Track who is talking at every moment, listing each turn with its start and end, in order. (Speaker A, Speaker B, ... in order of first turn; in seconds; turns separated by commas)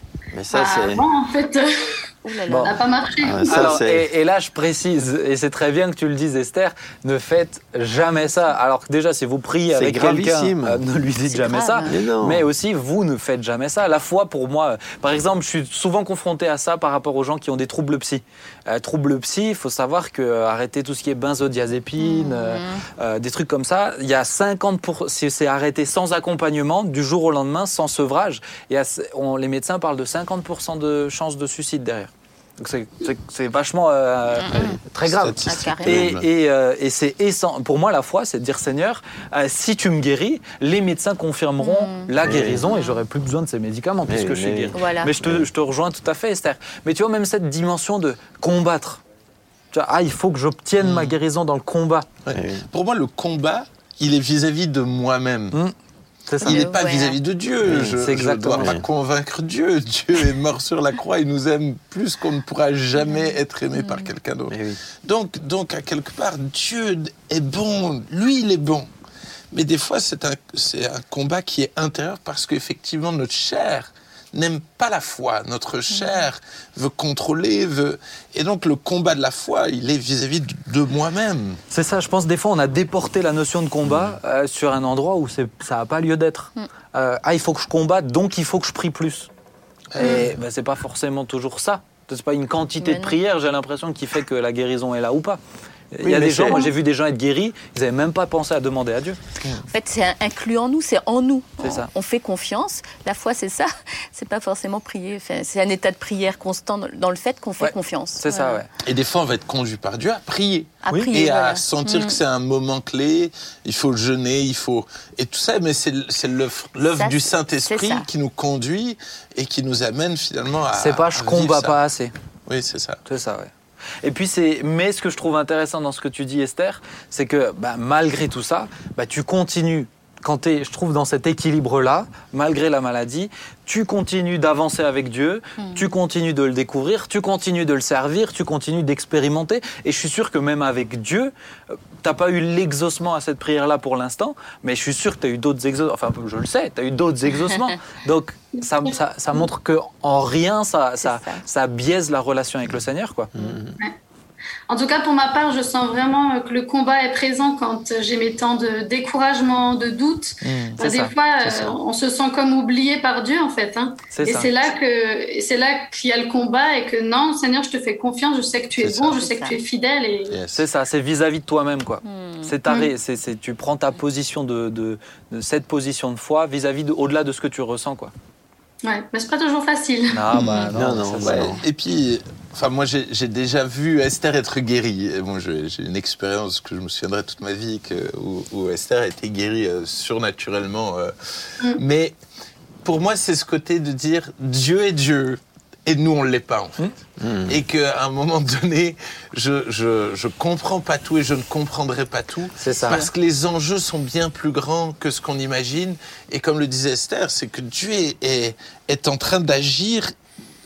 Speaker A: 0.3-1.0, Speaker B: 0.5-2.1, Speaker C: 2.2-2.8, Speaker D: 2.5-2.7, Speaker B: 2.6-3.5, Speaker A: 3.2-4.0, Speaker C: 3.3-3.6, Speaker D: 3.4-49.0, Speaker A: 9.7-10.8, Speaker C: 11.3-12.0, Speaker A: 11.8-12.4, Speaker C: 22.0-22.8, Speaker C: 34.4-34.8, Speaker E: 34.5-36.2, Speaker C: 35.4-36.0, Speaker C: 41.6-43.0, Speaker A: 42.2-42.7, Speaker A: 44.1-45.5, Speaker C: 44.7-45.1, Speaker D: 49.7-52.1, Speaker E: 50.8-51.1, Speaker E: 52.2-55.6, Speaker A: 52.3-52.7, Speaker D: 56.3-56.8, Speaker C: 56.4-57.2, Speaker E: 56.4-68.9, Speaker A: 57.6-58.0, Speaker D: 57.9-58.8, Speaker A: 58.6-58.9, Speaker C: 63.0-64.1, Speaker A: 64.5-64.8, Speaker E: 69.5-81.6, Speaker D: 81.7-89.3, Speaker E: 83.8-84.1, Speaker E: 89.9-90.3, Speaker D: 90.0-99.2, Speaker C: 92.8-93.2, Speaker A: 96.0-96.7, Speaker C: 99.7-108.6, Speaker D: 101.6-101.9, Speaker D: 107.6-108.7, Speaker E: 108.8-121.8, Speaker C: 110.8-112.2, Speaker D: 110.9-111.1, Speaker C: 116.9-118.0, Speaker D: 120.7-122.1, Speaker E: 122.5-123.0, Speaker D: 123.0-123.5, Speaker D: 124.0-153.3, Speaker C: 151.0-151.4, Speaker A: 153.3-153.8, Speaker B: 154.7-170.4, Speaker E: 160.4-160.8, Speaker D: 160.8-161.1, Speaker E: 161.4-161.7, Speaker D: 164.1-164.5, Speaker E: 168.8-169.2, Speaker C: 169.1-169.5, Speaker E: 170.3-170.6, Speaker D: 170.5-178.1, Speaker C: 172.1-172.5, Speaker B: 178.8-180.3, Speaker D: 180.1-181.6, Speaker E: 180.3-192.2, Speaker A: 180.7-181.6, Speaker E: 192.8-196.9, Speaker A: 197.2-197.6, Speaker E: 197.4-210.1, Speaker D: 202.6-203.0